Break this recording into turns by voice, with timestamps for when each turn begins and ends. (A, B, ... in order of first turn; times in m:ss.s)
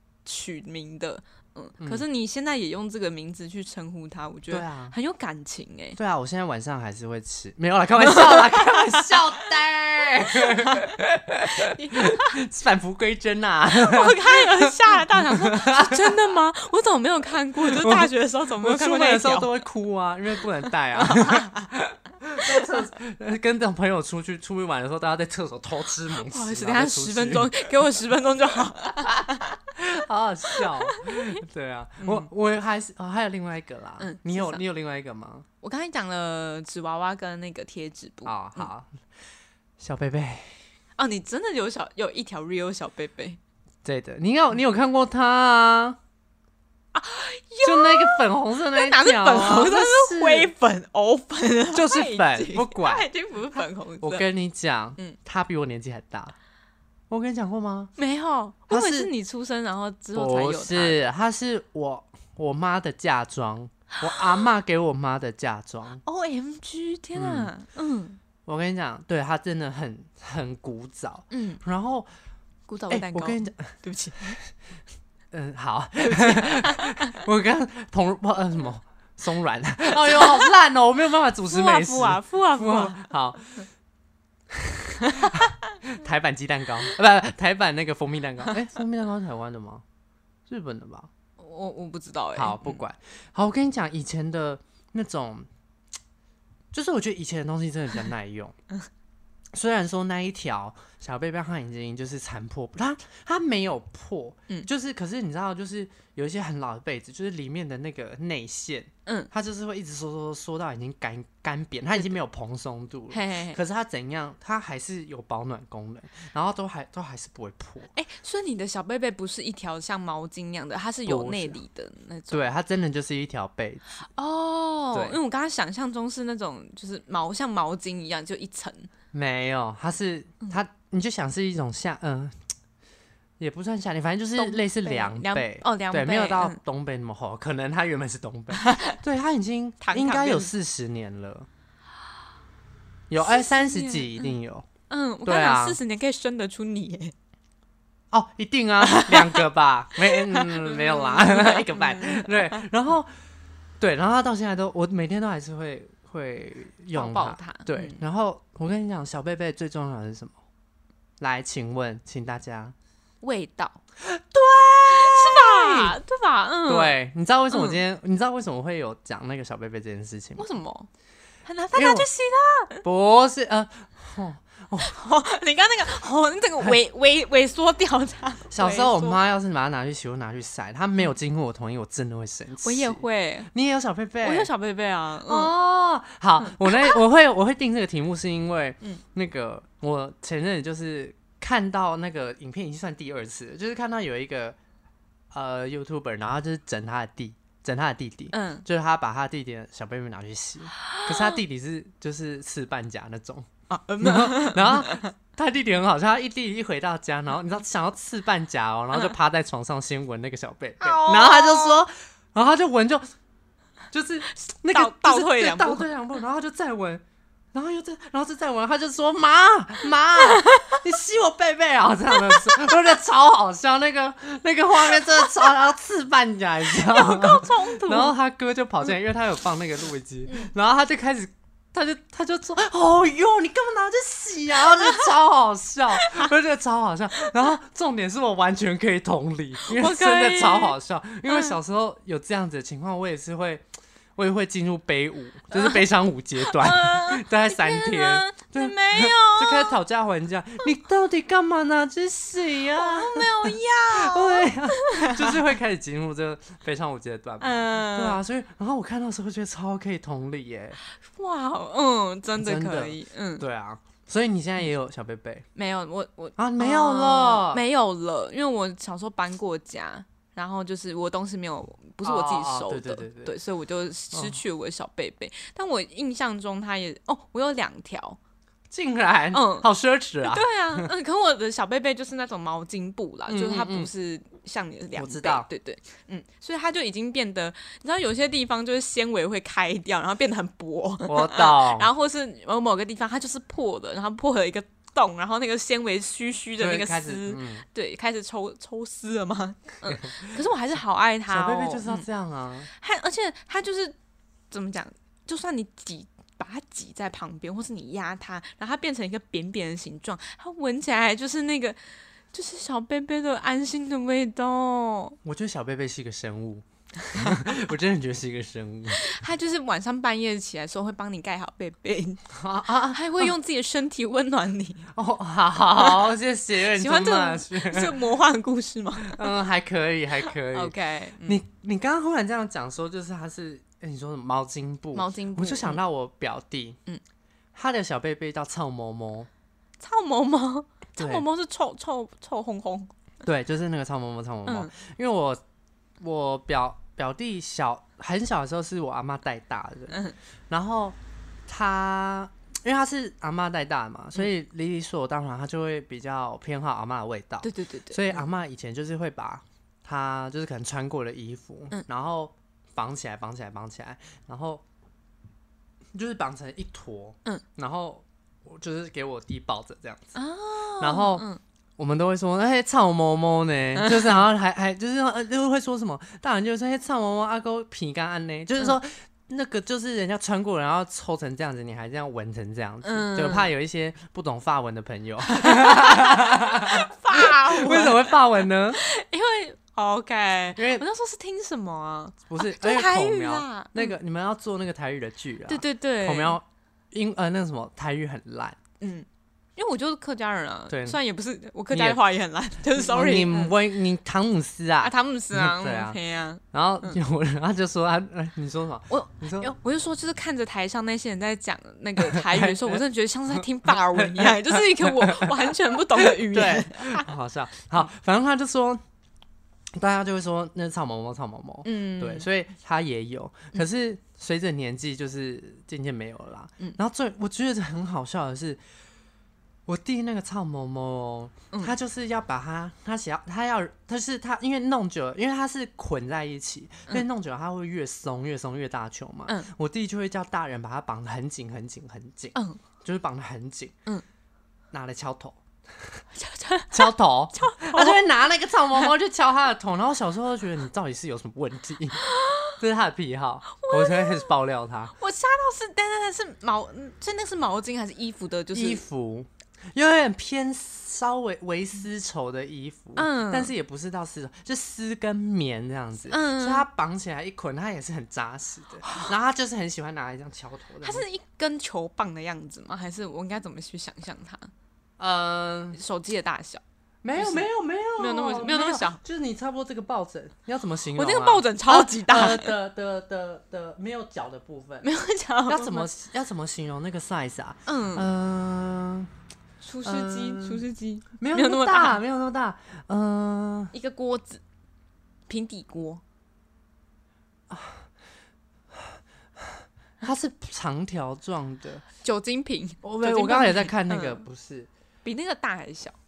0:00.2-0:06.0 A
0:04.5-0:04.9 B
0:06.0-0:16.1 B
0:08.0-0:09.2 A
0:10.3-0:10.9 A
0:11.6-0:12.4 A
0:13.7-0:19.5 A
0:17.6-0:27.5 B
0:20.9-0:21.6 A
0:22.4-0:22.8 A
0:26.2-0:29.6 A
0:29.1-0:35.4 B
0:30.5-0:31.4 A
0:32.0-0:32.3 A
0:34.0-0:34.6 A
0:35.6-0:38.7 A
0:38.2-0:38.9 B
0:39.8-0:40.6 B
0:41.0-0:43.4 A
0:43.8-0:46.0 B
0:46.9-0:54.3 A
0:47.6-0:50.5 B
0:51.7-0:53.1 B
0:54.0-0:56.4 B
0:57.1-0:57.9 B
0:58.0-1:01.0 A
0:58.7-0:59.1 B
1:00.1-1:06.0 B
1:06.0-1:08.2 A
1:07.1-1:07.5 B
1:08.4-1:12.1 B
1:11.3-1:11.6 A
1:12.7-1:14.4 A
1:12.9-1:13.7 B
1:15.3-1:23.6 B
1:16.0-1:17.1 A
1:20.1-1:20.5 A
1:21.5-1:23.1 A
1:24.5-1:29.8 B
1:30.5-1:31.1 B
1:31.4-1:32.8 A
1:32.4-1:35.5 B
1:36.7-1:38.6 B
1:39.5-1:57.9 B
1:53.1-1:53.6 A
1:57.9-2:02.4 A
2:01.1-2:01.6 B
2:02.3-2:03.8 B
2:04.0-2:08.9 A
2:04.9-2:05.2 B
2:09.1-2:12.4 B
2:13.4-2:21.5 B
2:14.4-2:16.6 A
2:18.6-2:19.0 A
2:19.8-2:20.5 A
2:23.1-2:24.7 B
2:23.2-2:24.4 A
2:24.9-2:27.1 A
2:25.2-2:25.8 B
2:28.1-2:33.1 B
2:28.8-2:29.4 A
2:30.1-2:32.6 A
2:33.8-2:40.4 B
2:36.9-2:38.0 A
2:41.2-2:42.8 B
2:43.2-2:43.8 A
2:44.0-2:46.0 B
2:44.9-2:47.0 A
2:46.7-2:50.4 B
2:47.5-2:47.8 A
2:50.4-2:50.9 A
2:51.4-2:52.8 A
2:51.7-2:52.1 B
2:52.8-2:54.9 B
2:54.8-2:59.2 A
2:58.5-3:04.5 B
3:02.6-3:03.5 A
3:04.2-3:05.5 A
3:05.3-3:14.6 B
3:06.4-3:07.0 A
3:15.3-3:23.5 B
3:18.3-3:18.6 A
3:21.0-3:21.4 A
3:23.7-3:25.1 A
3:24.0-3:33.0 B
3:30.8-3:31.8 A
3:33.9-3:37.0 B
3:34.5-3:35.9 A
3:37.5-4:03.6 B
3:40.2-3:40.8 A
3:42.2-3:42.6 A
3:46.7-3:48.1 A
3:59.6-4:00.8 A
4:01.3-4:01.6 A
4:04.2-4:20.8 B
4:05.5-4:05.8 A
4:06.4-4:09.8 A
4:12.7-4:15.4 A
4:17.4-4:18.2 A
4:21.0-4:23.4 A
4:22.4-4:25.4 B
4:25.6-4:38.2 A
4:26.4-4:27.6 B
4:32.0-4:33.4 B
4:34.1-4:34.4 B
4:38.7-4:40.9 B
4:39.3-4:39.7 A
4:40.2-5:02.1 A
4:43.3-4:43.9 B
4:45.0-4:45.5 B
4:51.1-4:51.9 B
4:56.6-4:57.6 B
4:59.9-5:00.4 B
5:01.3-5:02.7 B
5:02.7-5:04.0 A
5:04.5-5:11.8 A
5:12.3-5:15.2 A
5:15.2-5:19.1 B
5:17.1-5:17.5 A
5:19.0-5:22.2 A
5:22.3-5:23.3 B
5:22.9-5:24.9 A
5:24.9-5:28.0 B
5:25.8-5:29.3 A
5:29.0-5:36.8 B
5:30.5-5:31.4 A
5:34.9-5:35.8 A
5:37.6-5:39.3 B
5:39.8-5:42.9 A
5:41.0-5:41.2 B
5:43.2-5:45.4 B
5:44.4-5:44.7 A
5:46.0-5:51.0 B
5:49.9-5:50.2 A
5:51.5-6:04.6 B
5:57.4-5:58.2 A
6:05.9-6:10.2 B
6:10.1-6:11.4 A
6:10.8-6:11.3 B
6:11.8-6:28.8 B
6:13.8-6:14.2 A
6:22.8-6:23.5 A
6:25.3-6:28.2 A
6:28.7-6:33.9 A
6:30.6-6:30.8 B
6:32.3-6:38.6 B
6:35.5-6:36.4 A
6:38.8-6:43.6 A
6:40.7-6:41.0 B
6:41.7-6:42.0 B
6:42.8-6:46.0 B
6:44.8-6:47.0 A
6:46.5-6:49.5 B
6:48.9-6:57.1 A
6:52.0-6:52.8 B
6:53.4-6:58.8 B
6:59.7-7:08.6 B
7:01.6-7:02.3 A
7:09.7-7:23.8 B
7:22.4-7:22.6 A
7:24.7-7:26.0 B
7:26.1-7:28.0 A
7:26.7-7:32.0 B
7:32.0-7:32.6 A
7:32.6-7:34.9 B
7:33.6-7:34.3 A
7:34.9-7:38.8 A
7:38.5-7:51.0 B
7:43.0-7:43.5 A
7:46.1-7:46.6 A
7:48.9-7:49.1 A
7:50.8-7:54.5 A
7:55.0-7:55.8 B
7:55.7-7:56.6 A
7:57.0-8:04.9 B
7:57.2-7:59.0 A
8:00.9-8:02.5 A
8:04.8-8:05.9 A
8:05.5-8:09.1 B
8:07.7-8:08.1 A
8:09.6-8:12.0 A
8:09.8-8:10.6 B
8:11.2-8:13.7 B
8:13.7-8:14.4 A
8:15.3-8:16.0 A
8:17.5-8:17.9 B
8:18.7-8:21.9 B
8:22.0-8:24.2 A
8:22.8-8:24.7 B
8:25.0-8:26.0 A